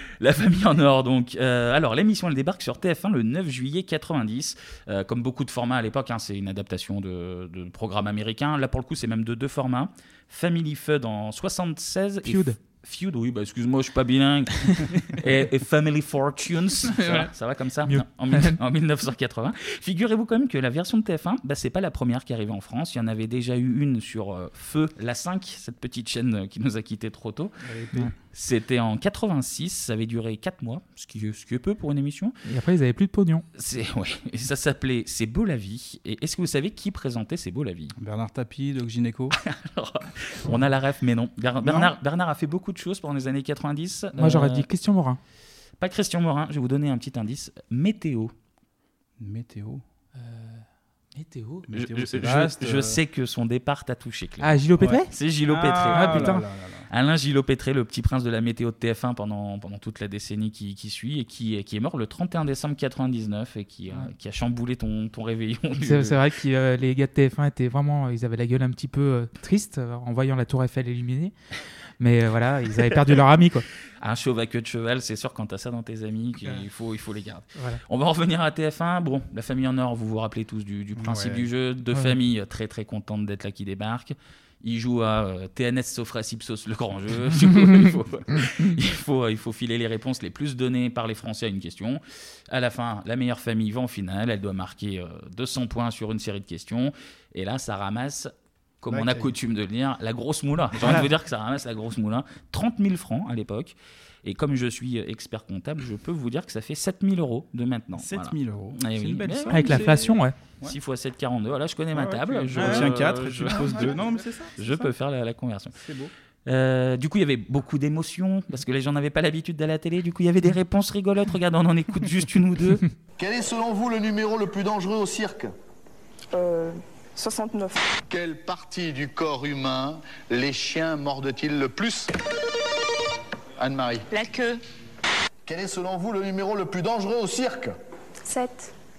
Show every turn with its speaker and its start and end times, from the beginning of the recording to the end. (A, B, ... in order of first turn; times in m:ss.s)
0:00.2-0:27.6 A
0:12.2-0:12.6 B
0:16.9-0:17.3 B
0:17.8-0:18.6 B
0:27.6-0:28.1 C
0:28.2-0:32.4 A
0:32.4-0:33.4 B
0:33.5-0:37.9 A
0:38.0-0:39.4 C
0:39.4-0:44.7 A
0:41.6-0:41.9 C
0:44.1-0:45.2 B
0:45.8-0:48.3 A
0:49.2-0:49.8 C
0:50.2-0:51.7 B
0:51.7-0:53.0 C
0:51.7-0:56.4 A
0:54.4-0:55.1 B
0:54.8-0:56.9 C
0:55.9-0:56.4 B
0:56.9-1:06.2 A
1:05.8-1:11.3 B
1:12.0-1:13.6 B
1:14.0-1:50.0 A
1:17.5-1:17.8 B
1:21.0-1:21.5 C
1:38.9-1:39.3 C
1:40.7-1:41.1 C
1:40.8-1:41.1 B
1:48.0-1:50.8 C
1:49.5-1:50.4 B
1:50.6-1:55.7 A
1:51.9-1:54.9 C
1:55.7-1:56.1 C
1:56.4-2:02.8 A
2:03.2-2:05.5 D
2:06.3-2:07.8 E
2:08.1-2:12.1 D
2:13.6-2:14.1 D
2:14.1-2:14.6 E
2:15.4-2:17.7 D
2:18.2-2:18.7 E